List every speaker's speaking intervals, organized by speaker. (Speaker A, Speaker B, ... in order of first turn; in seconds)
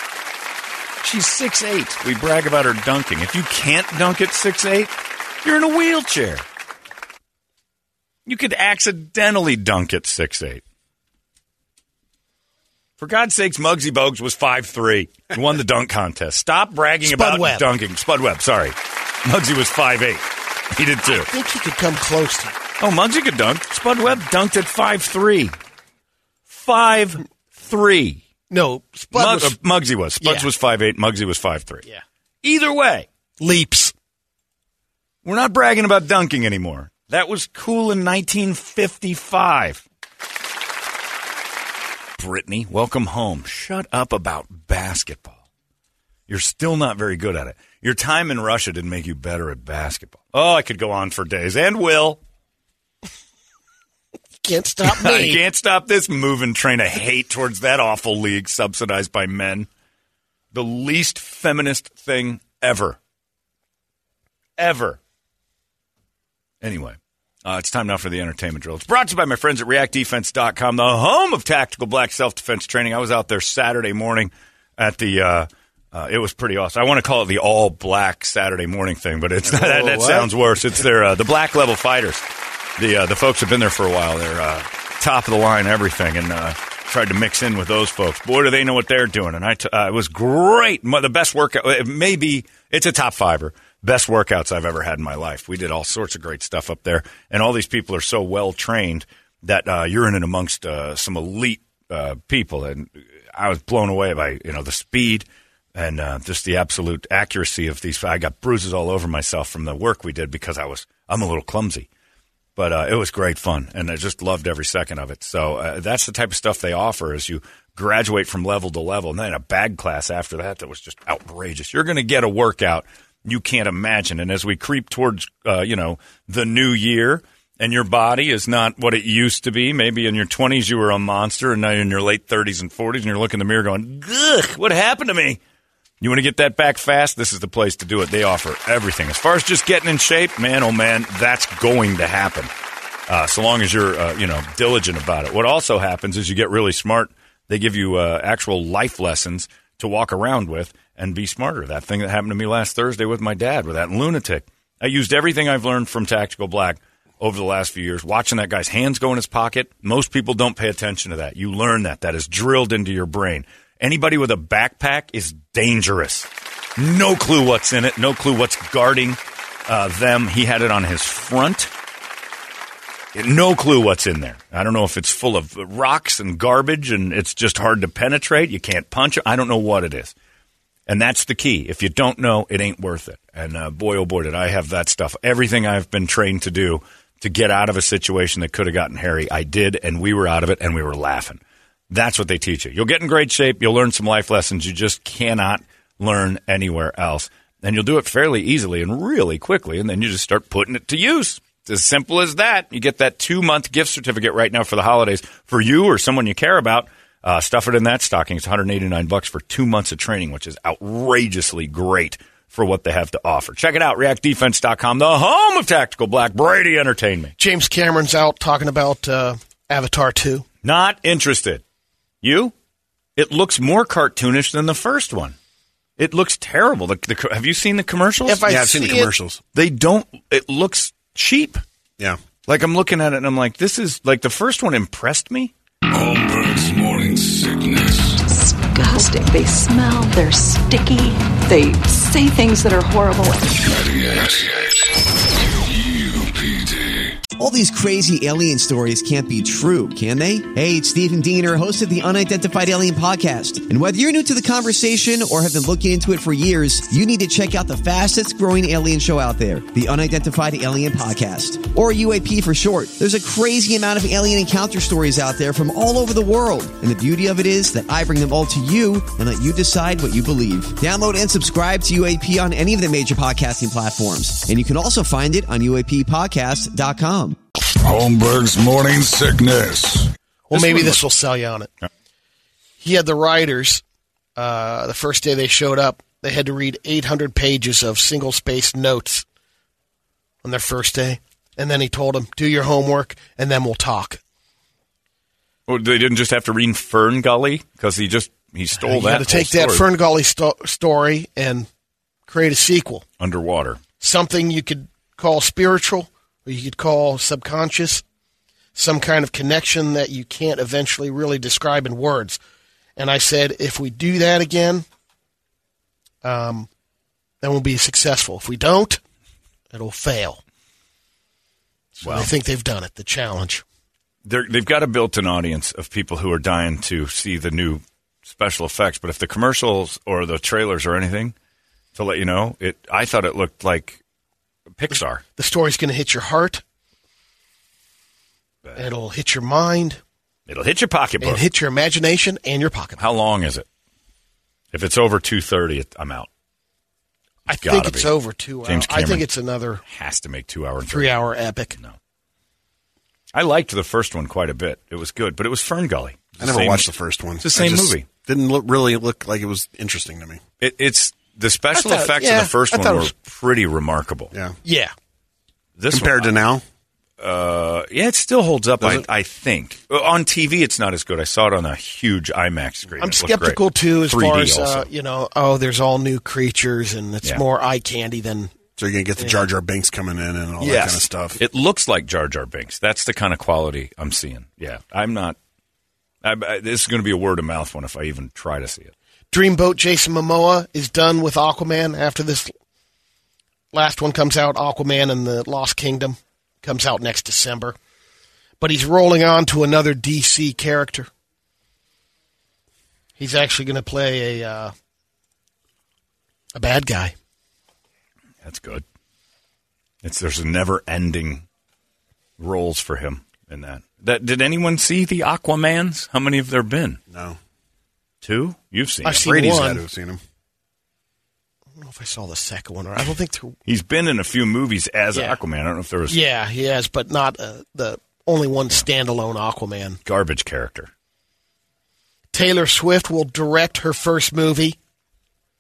Speaker A: 1.0-4.9, 5.4-6.5, 8.3-10.6, 13.0-21.3, 22.8-25.6, 26.5-28.2, 29.1-31.8, 32.4-33.1, 35.2-39.8, 42.2-45.4, 46.3-52.2, 54.8-59.7, 60.5-63.0, 64.6-65.0, 66.6-82.2, 82.8-111.9, 112.6-135.4, 136.0-142.5, 143.1-171.7, 173.1-180.1, 180.9-217.3, 220.6-221.6, 222.2-222.5, 223.2-225.4, 226.0-228.4, 229.6-231.6, 232.5-235.5, 280.5-280.9, 295.7-299.9, 303.2-303.8, 322.0-322.3, 324.2-331.3, 331.9-334.0, 334.7-335.2, 340.5-341.4, 343.0-343.7, 344.7-346.3, 347.5-348.1, 348.6-349.3, 349.9-351.2, 353.3-358.1, 360.6-364.3, 365.8-366.4, 367.2-374.9, 380.6-385.4, 386.2-388.9, 408.4-408.8, 410.0-411.5, 412.4-417.0, 418.2-419.3, 423.7-426.2, 430.1-430.9
Speaker B: 17.0-17.7, 21.1-22.6, 28.5-29.6, 30.2-30.5, 33.4-33.9, 54.4-55.4, 217.4-220.4, 228.2-229.1, 280.5-281.7, 282.8-283.8, 284.4-289.2, 290.4-294.2, 298.8-301.7, 302.3-303.1, 304.0-308.0, 308.8-312.4, 313.0-314.9, 316.2-316.7, 317.4-319.0, 319.7-320.4, 322.0-323.6, 335.4-336.6, 338.8-340.0, 341.2-343.0, 347.5-349.8, 350.9-351.8, 361.7-363.1, 364.6-364.9, 373.0-378.6, 389.3-392.5, 393.7-397.8, 398.6-401.1, 403.2-404.7, 406.5-407.1, 419.0-419.8, 421.8-423.6, 426.1-430.0, 432.3-434.8
Speaker C: 79.5-80.3, 228.5-229.4, 356.4-360.4, 364.3-364.6, 365.9-366.6, 378.8-381.4, 417.1-417.4, 419.1-420.2
Speaker D: 235.9-238.2, 243.6-244.8, 245.7-247.1, 277.8-280.1
Speaker E: 238.3-243.5
Speaker F: 247.4-277.4